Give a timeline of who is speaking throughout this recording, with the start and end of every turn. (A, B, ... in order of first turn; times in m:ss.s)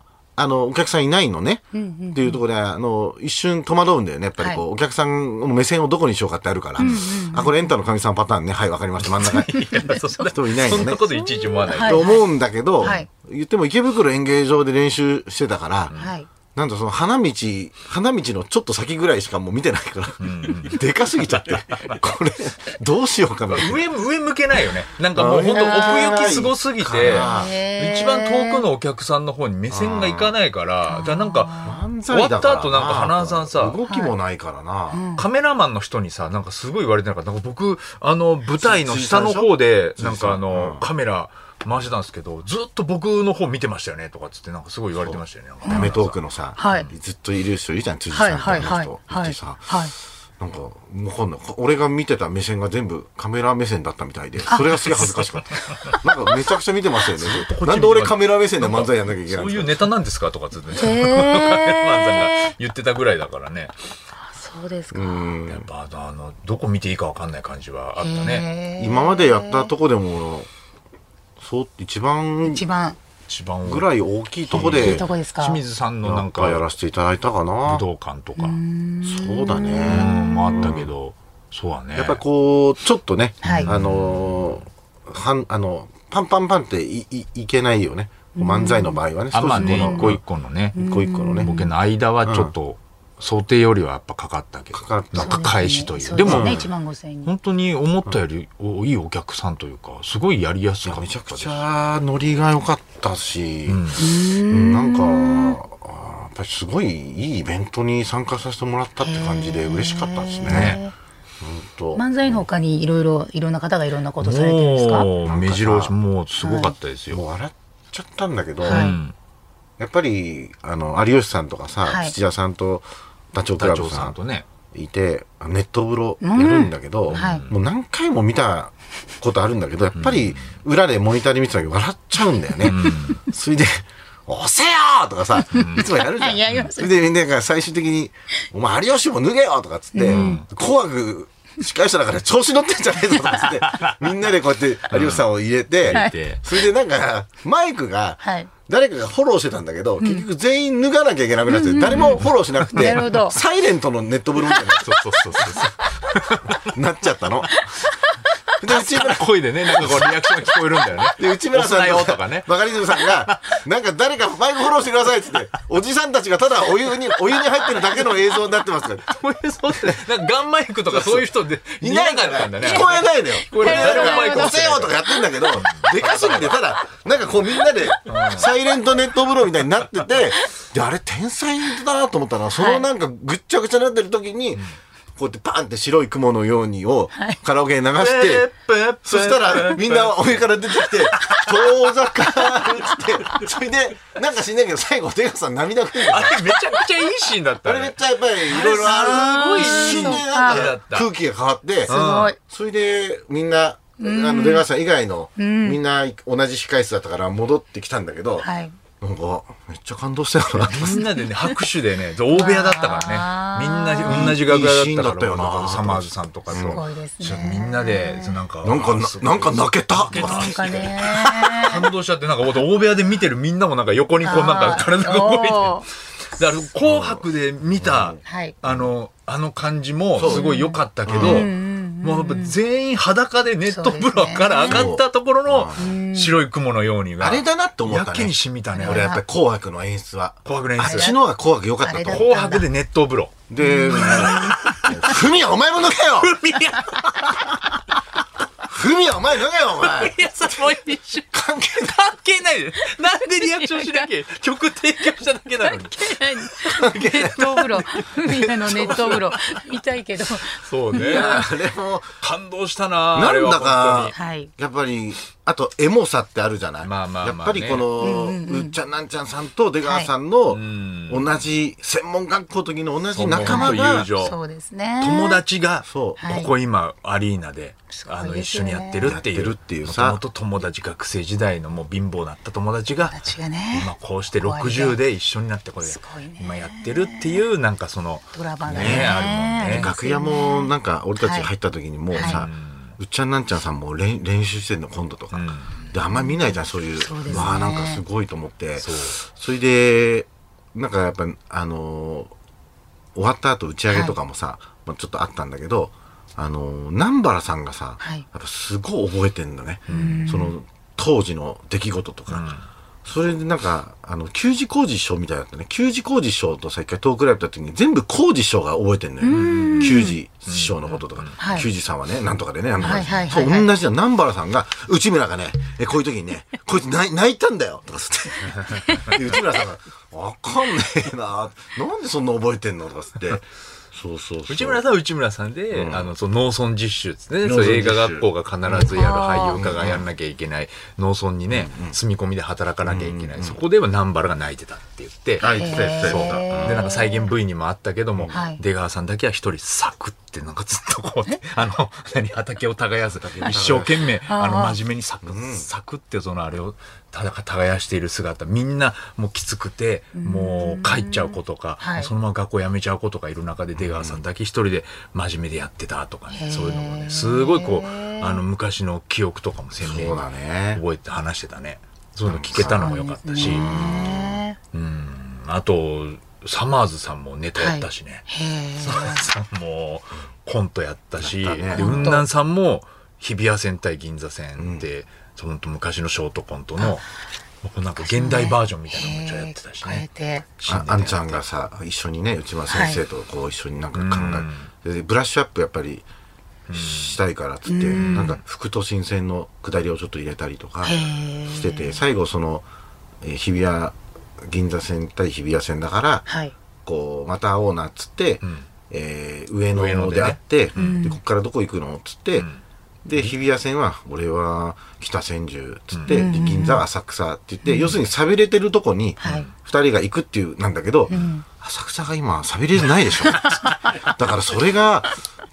0:00.4-0:11.0 A
0:01.7-0:02.4 B
0:06.8-0:07.6 B
0:09.0-0:12.2 C
0:09.6-0:12.3 B
0:11.8-0:15.9 A
0:12.8-0:13.1 B
0:16.0-0:16.3 B
0:16.6-0:23.8 A
0:20.2-0:22.0 C
0:23.5-0:33.8 C
0:25.2-0:27.6 A
0:27.1-0:28.7 B
0:29.7-0:30.4 A
0:30.9-0:31.8 B
0:31.6-0:35.0 A
0:33.9-0:34.1 B
0:34.9-0:35.2 B
0:35.2-0:46.2 C
0:38.6-0:40.9 A
0:45.0-0:49.7 A
0:45.6-0:45.9 B
0:46.6-0:46.9 B
0:48.1-0:49.9 B
0:48.4-0:48.7 C
0:50.4-0:59.9 A
0:54.5-0:56.3 B
0:57.2-1:03.7 C
1:00.8-1:02.6 B
1:04.2-1:05.3 B
1:04.9-1:05.7 A
1:05.5-1:08.4 C
1:08.0-1:09.7 B
1:08.8-1:10.5 A
1:11.4-1:12.6 A
1:12.4-1:13.0 B
1:13.3-1:13.9 C
1:13.7-1:15.0 A
1:14.5-1:16.6 C
1:14.6-1:15.6 B
1:16.0-1:17.8 A
1:17.7-1:18.6 C
1:18.4-1:20.8 B
1:19.0-1:20.9 A
1:19.9-1:22.2 C
1:22.0-1:30.2 A
1:23.4-1:23.7 B
1:23.4-1:24.6 C
1:28.4-1:30.1 B
1:29.3-1:30.8 C
1:30.8-1:31.5 A
1:30.8-1:31.7 B
1:31.4-1:36.6 C
1:32.2-1:32.5 A
1:34.7-1:35.5 A
1:35.2-1:37.3 B
1:36.2-1:36.7 A
1:37.2-1:41.6 C
1:40.8-1:43.8 A
1:43.7-1:44.0 C
1:44.0-1:45.6 B
1:44.5-1:50.8 A
1:49.0-1:50.9 B
1:50.5-1:50.8 C
1:51.4-1:52.4 A
1:52.0-1:55.1 B
1:54.2-1:57.2 C
1:55.2-1:55.9 A
1:56.4-1:56.7 B
1:57.1-1:58.9 A
1:58.6-1:59.0 B
1:58.7-1:59.1 C
1:59.8-2:04.2 A
2:01.8-2:02.2 B
2:03.6-2:04.5 C
2:04.7-2:35.7 A
2:06.2-2:07.5 B
2:07.1-2:07.5 C
2:10.0-2:10.5 C
2:12.6-2:13.2 C
2:15.4-2:17.0 B
2:15.5-2:15.9 C
2:19.9-2:20.4 B
2:20.0-2:20.4 C
2:23.3-2:24.0 C
2:24.9-2:25.2 C
2:25.8-2:26.4 C
2:28.2-2:28.5 B
2:30.0-2:30.3 B
2:31.5-2:33.4 B
2:31.9-2:33.2 C
2:34.8-2:36.7 C
2:36.4-2:37.8 A
2:37.6-2:38.4 B
2:38.6-2:40.2 A
2:38.7-2:43.6 C
2:41.1-2:49.1 A
2:49.1-2:55.0 C
2:50.9-3:08.5 A
2:52.6-2:55.8 B
2:55.5-2:56.6 C
2:58.0-2:58.5 C
3:02.6-3:02.8 B
3:08.0-3:11.4 C
3:09.0-3:16.7 A
3:11.1-3:11.5 B
3:12.0-3:12.7 B
3:16.0-3:21.1 C
3:17.6-3:28.5 A
3:18.5-3:20.7 B
3:21.9-3:22.3 C
3:21.9-3:22.4 B
3:24.0-3:24.6 B
3:25.4-3:25.8 B
3:28.4-3:28.8 B
3:29.0-3:31.0 A
3:30.6-3:59.2 C
3:30.9-3:31.6 B
3:32.3-3:34.4 B
3:34.1-3:37.5 A
3:36.6-3:38.4 B
3:38.6-3:41.1 A
3:40.1-3:41.9 B
3:44.2-3:45.9 B
3:46.8-3:48.9 A
3:48.2-3:48.6 B
3:50.2-3:50.5 A
3:50.3-3:52.6 B
3:51.0-3:51.5 A
3:53.7-3:54.9 B
3:54.6-3:55.9 A
3:55.8-3:56.4 B
3:57.2-4:02.3 A
3:58.7-3:59.2 B
4:00.4-4:01.2 C
4:00.8-4:01.1 B
4:01.8-4:02.7 B
4:02.0-4:05.2 C
4:03.5-4:06.4 A
4:03.6-4:04.8 B
4:06.2-4:07.6 C
4:08.6-4:10.6 A
4:09.8-4:19.6 C
4:11.3-4:12.0 A
4:13.3-4:14.1 B
4:15.6-4:21.5 B
4:20.5-4:21.6 C
4:21.0-4:22.2 A
4:22.2-4:24.2 C
4:23.1-4:34.1 A
4:24.1-4:24.5 B
4:26.8-4:27.9 C
4:28.0-4:28.8 B
4:29.8-4:30.1 B
4:30.5-4:31.4 C
4:33.1-4:34.4 C
4:33.4-4:35.4 B
4:35.0-4:43.2 C
4:35.8-4:36.2 A
4:36.2-4:36.5 B
4:37.9-4:39.1 B
4:39.0-4:40.2 A
4:43.1-4:43.9 B
4:43.7-4:49.9 C
4:44.4-4:45.0 B
4:45.8-4:47.4 B
4:48.3-4:51.5 B
4:48.7-5:02.3 A
4:52.1-4:52.4 B
4:52.2-4:53.0 C
4:55.3-4:55.8 C
4:57.0-4:58.0 B
4:58.8-4:59.2 C
5:03.2-5:12.5 A
5:09.9-5:10.3 C
5:09.9-5:10.6 B
5:12.3-5:12.6 C
5:13.0-5:34.8 A
5:19.2-5:20.2 B
5:19.3-5:21.4 C
5:21.4-5:21.7 B
5:22.8-5:23.7 B
5:28.8-5:29.1 B
5:34.5-6:10.2 C
5:35.7-5:36.1 A
5:37.4-5:39.0 A
5:38.9-5:39.6 B
5:39.5-5:40.1 A
5:41.5-5:42.0 A
5:42.8-5:43.6 A
5:45.4-5:46.9 A
5:45.6-5:47.3 B
5:48.3-5:48.6 B
5:53.2-5:54.1 A
5:54.3-5:54.8 B
5:55.2-5:55.7 A
6:00.2-6:02.1 B
6:03.8-6:04.2 A
6:06.3-6:08.4 B
6:09.8-6:10.8 A
6:10.7-6:13.7 C
6:12.3-6:14.4 A
6:12.6-6:14.6 B
6:14.7-6:18.2 C
6:17.6-6:19.2 B
6:18.8-6:27.1 C
6:21.2-6:22.1 A
6:21.8-6:22.3 B
6:24.6-6:24.9 A
6:27.6-6:30.0 C
6:28.0-6:30.5 B
6:30.6-6:31.4 C
6:30.7-6:36.0 A
6:32.7-6:33.0 B
6:33.9-6:34.7 C
6:36.7-6:37.2 C
6:36.7-6:42.6 A
6:37.7-6:38.3 B
6:38.0-6:38.4 C
6:40.8-6:42.0 B
6:43.2-6:46.2 A
6:46.3-6:46.5 B
6:46.8-6:52.5 A
6:49.7-6:51.0 C
6:50.8-6:51.2 B
6:52.4-6:52.6 C
6:53.0-7:05.1 A
6:55.9-6:56.2 C
6:56.1-6:56.8 B
6:57.6-6:57.9 B
6:59.2-6:59.5 B
6:59.2-6:59.5 C
7:01.1-7:01.4 B
7:03.4-7:03.8 B